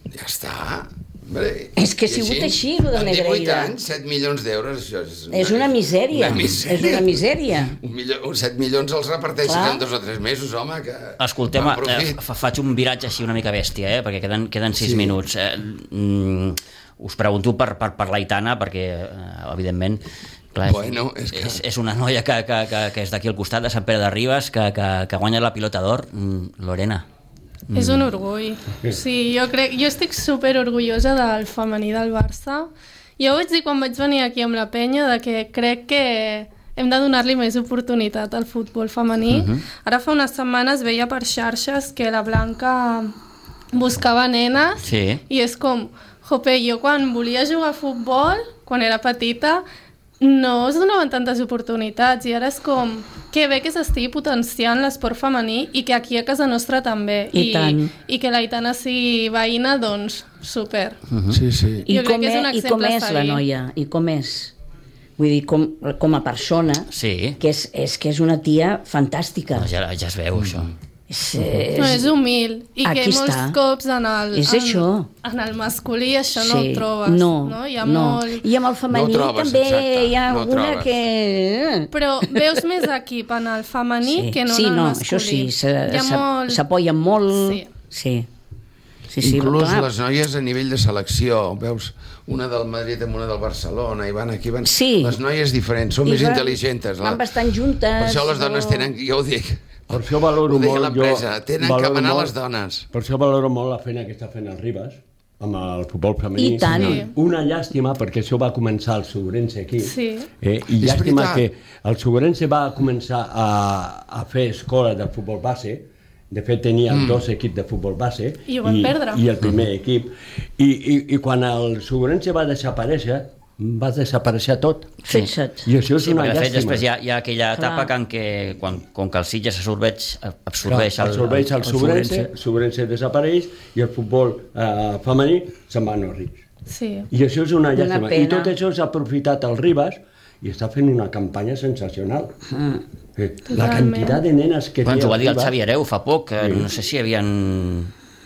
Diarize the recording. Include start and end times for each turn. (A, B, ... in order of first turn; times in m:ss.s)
0:00.1-0:07.3 A
0:01.8-0:03.7 B
0:05.3-0:07.8 B
0:07.8-0:12.2 A
0:09.4-0:09.8 B
0:11.2-0:20.0 C
0:14.8-0:15.2 A
0:20.5-0:27.0 C
0:20.6-0:21.6 A
0:27.7-0:28.1 C
0:27.7-0:43.1 D
0:39.3-0:39.6 C
0:43.7-0:49.6 D
0:44.8-0:45.2 C
0:50.2-1:01.0 D
0:57.3-0:57.9 B
1:01.1-1:01.4 C
1:01.3-1:01.9 A
1:01.8-1:03.4 D
1:01.9-1:04.5 B
1:05.2-1:09.7 B
1:06.9-1:07.4 C
1:09.6-1:10.7 C
1:10.4-1:10.7 A
1:11.1-1:12.1 B
1:11.7-1:18.4 D
1:12.8-1:13.6 B
1:14.3-1:15.1 B
1:16.3-1:22.4 B
1:18.9-1:20.9 A
1:21.9-1:26.6 D
1:24.0-1:28.3 B
1:27.3-1:27.7 D
1:29.1-1:29.9 B
1:29.2-1:37.2 A
1:34.6-1:35.2 B
1:36.0-1:38.9 B
1:38.0-1:42.9 A
1:39.9-1:42.3 E
1:42.9-2:05.0 E
1:46.4-1:47.1 B
1:46.7-1:47.1 D
1:49.8-1:50.3 D
1:50.8-1:51.4 A
1:56.9-1:57.2 A
1:58.5-1:59.2 D
2:05.0-2:05.7 B
2:05.6-2:06.8 E
2:06.0-2:12.3 C
2:07.5-2:07.9 B
2:10.6-2:16.4 E
2:16.7-2:17.1 D
2:17.1-2:22.3 E
2:17.7-2:18.5 B
2:22.5-2:22.8 B
2:23.2-2:25.6 E
2:23.5-2:24.2 D
2:24.8-2:27.9 C
2:26.4-2:26.7 E